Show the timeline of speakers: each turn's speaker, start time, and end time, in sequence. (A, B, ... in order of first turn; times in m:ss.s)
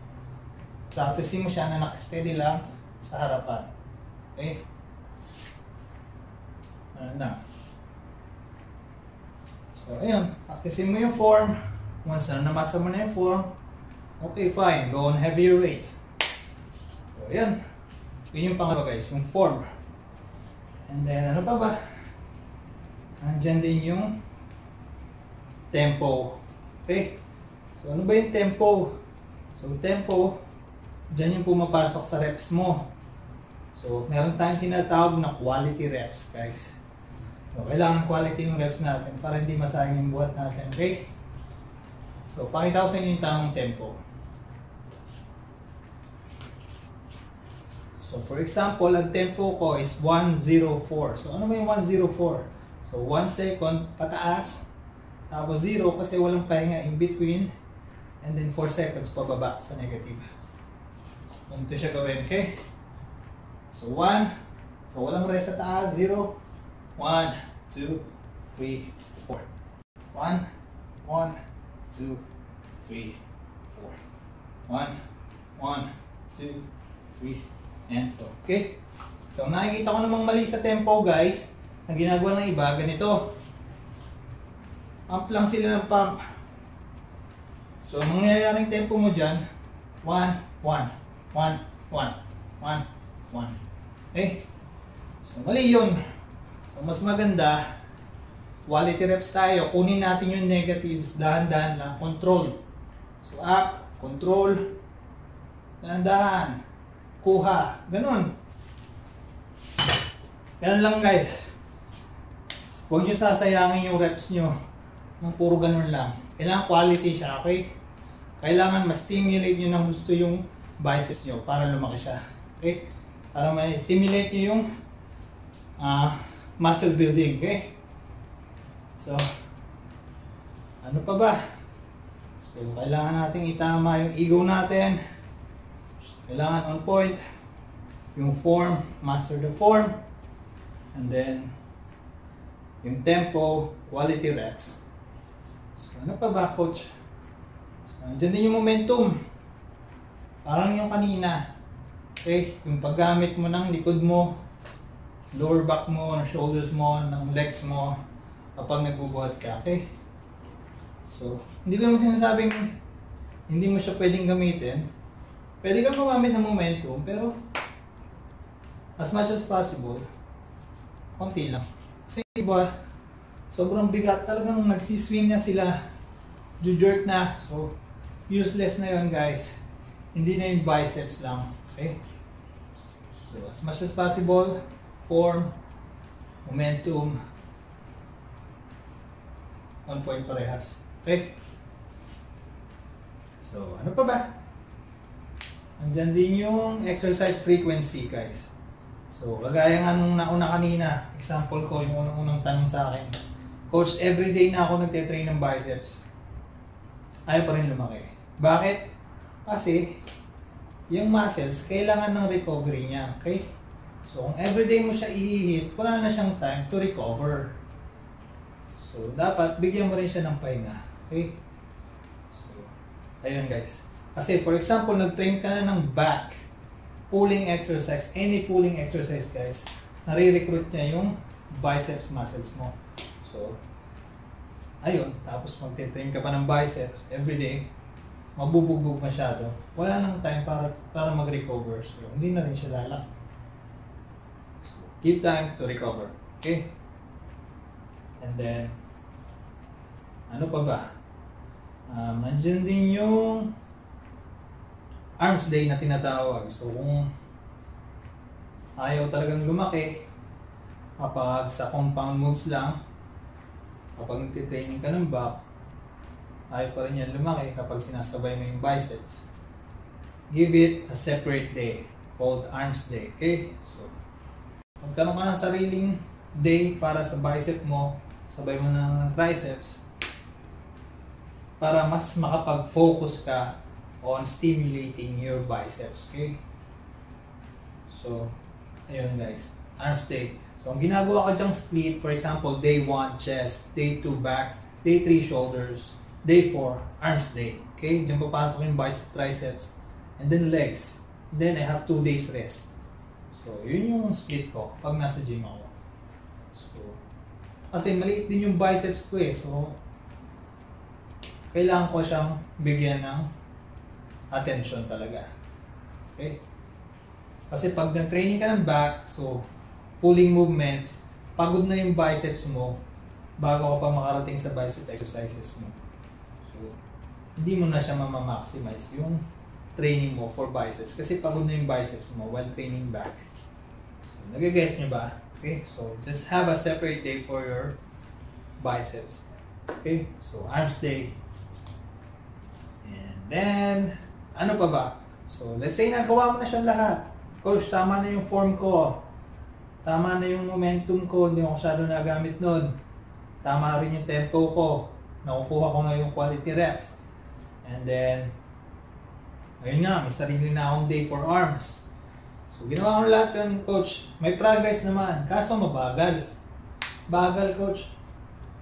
0:00.9-0:03.7 A
0:04.4-0:04.6 A
0:07.0-0:07.4 A
0:09.7-0:13.5 A
0:14.2-0:16.0 A
0:17.1-0:17.6 A
0:18.3-0:19.7 A
0:20.9-0:21.8 A
0:23.2-0:24.1 A
0:25.7-0:27.2 A
0:27.8-0:28.9 A
0:29.5-0:30.4 A
0:31.1-0:32.9 A
0:33.8-0:36.8 A
0:37.5-0:41.0 A
0:42.3-0:44.0 A
0:48.0-0:54.7 A
0:55.3-0:57.5 A
0:58.2-1:00.3 A
1:01.3-1:02.6 A
1:03.7-1:04.3 A
1:04.9-1:06.4 A
1:07.0-1:09.5 A
1:10.1-1:10.4 A
1:11.0-1:11.4 A
1:11.9-1:12.2 A
1:12.8-1:14.0 A
1:14.7-1:15.0 A
1:15.6-1:18.8 A
1:19.3-1:23.4 A
1:25.1-1:26.2 A
1:27.8-1:29.4 A
1:30.0-1:33.6 A
1:34.1-1:34.4 A
1:35.2-1:36.0 A
1:36.7-1:37.6 A
1:38.7-1:42.6 A
1:43.2-1:44.7 A
1:45.8-1:46.6 A
1:47.2-1:48.3 A
1:50.6-1:51.4 A
1:52.7-1:54.6 A
1:55.2-1:57.6 A
1:58.4-2:04.7 A
2:05.8-2:07.7 A
2:09.0-2:09.2 A
2:10.8-2:11.4 A
2:12.4-2:15.0 A
2:16.2-2:17.2 A
2:18.2-2:19.9 A
2:20.9-2:21.5 A
2:22.8-2:24.8 A
2:25.8-2:26.9 A
2:27.9-2:29.2 A
2:30.4-2:31.4 A
2:32.2-2:34.4 A
2:35.3-2:38.0 A
2:38.6-2:39.9 A
2:41.0-2:42.8 A
2:43.5-2:44.9 A
2:45.6-2:47.4 A
2:49.0-2:50.1 A
2:51.2-2:52.7 A
2:53.5-2:55.8 A
2:56.6-2:57.8 A
2:58.3-2:59.6 A
3:00.1-3:02.0 A
3:03.2-3:05.6 A
3:06.4-3:07.2 A
3:09.9-3:11.4 A
3:13.4-3:14.3 A
3:15.8-3:18.5 A
3:19.1-3:23.1 A
3:23.7-3:26.0 A
3:27.3-3:28.8 A
3:29.4-3:29.8 A
3:30.9-3:33.5 A
3:34.1-3:37.6 A
3:38.8-3:41.4 A
3:42.3-3:46.4 A
3:47.1-3:53.6 A
3:54.8-3:57.7 A
3:58.4-4:03.0 A
4:04.6-4:06.7 A
4:08.2-4:08.8 A
4:10.3-4:10.8 A
4:11.9-4:13.5 A
4:15.2-4:17.1 A
4:18.8-4:20.0 A
4:21.0-4:22.8 A
4:24.0-4:25.4 A
4:26.5-4:29.3 A
4:30.3-4:33.9 A
4:34.8-4:39.8 A
4:41.6-4:46.4 A
4:47.9-4:48.3 A
4:48.9-5:02.7 A
5:03.3-5:05.7 A
5:06.5-5:07.0 A
5:07.7-5:09.8 A
5:11.5-5:13.3 A
5:14.3-5:15.3 A
5:16.2-5:16.4 A
5:17.5-5:19.5 A
5:20.0-5:22.8 A
5:23.4-5:25.8 A
5:26.4-5:26.8 A
5:27.4-5:29.2 A
5:29.8-5:33.3 A
5:34.1-5:37.8 A
5:38.6-5:41.2 A
5:42.8-5:49.1 A
5:49.8-5:52.8 A
5:53.4-5:57.0 A
5:57.6-5:58.3 A
5:59.6-6:01.9 A
6:02.5-6:06.2 A
6:07.1-6:07.9 A